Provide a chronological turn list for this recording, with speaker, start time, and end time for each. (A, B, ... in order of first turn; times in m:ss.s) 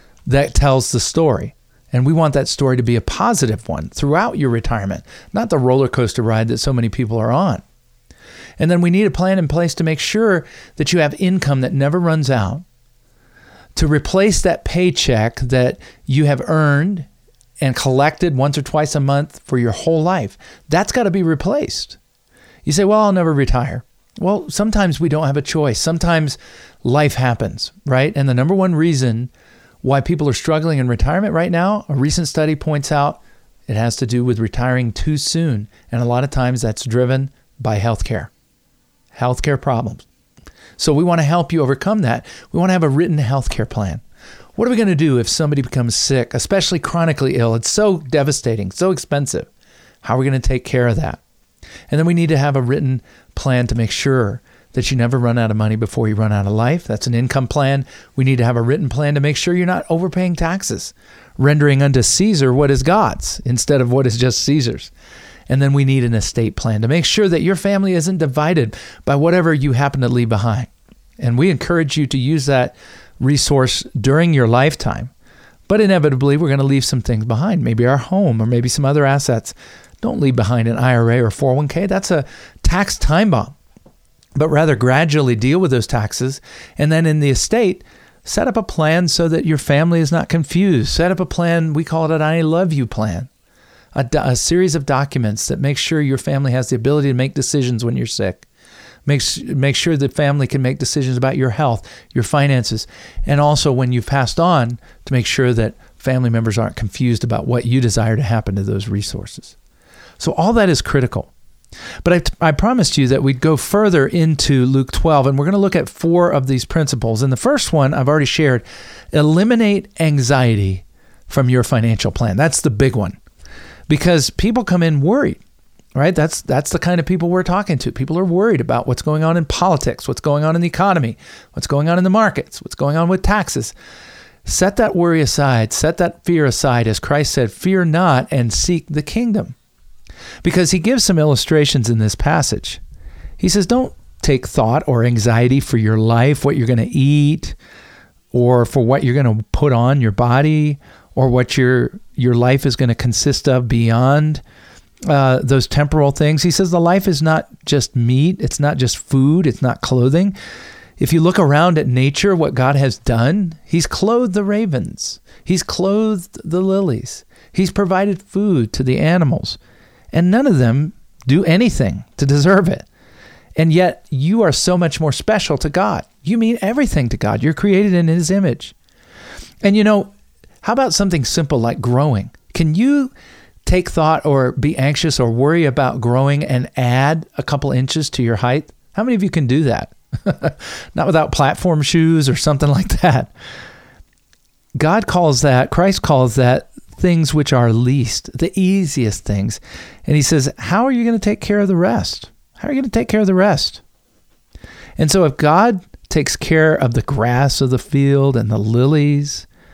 0:00.2-0:07.6 A
0:08.6-0:12.6 A
0:13.7-0:17.1 A
0:17.6-0:22.0 A
0:22.6-0:29.3 A
0:29.8-0:38.3 A
0:39.1-0:40.0 A
0:40.8-0:44.0 A
0:44.6-0:49.5 A
0:50.0-0:51.2 A
0:51.9-1:04.9 A
1:05.5-1:15.1 A
1:15.7-1:23.6 A
1:24.3-1:33.3 A
1:33.9-1:38.4 A
1:39.0-1:49.6 A
1:50.2-1:51.3 A
1:52.0-2:03.2 A
2:03.9-2:05.4 A
2:05.9-2:13.7 A
2:14.4-2:19.5 A
2:20.4-2:22.8 A
2:23.4-2:27.6 A
2:28.3-2:34.4 A
2:35.0-2:40.3 A
2:41.0-2:49.6 A
2:50.1-2:52.9 A
2:53.6-2:58.7 A
2:59.6-3:00.1 A
3:00.6-3:03.1 A
3:03.6-3:13.3 A
3:14.8-3:23.8 A
3:25.0-3:29.5 A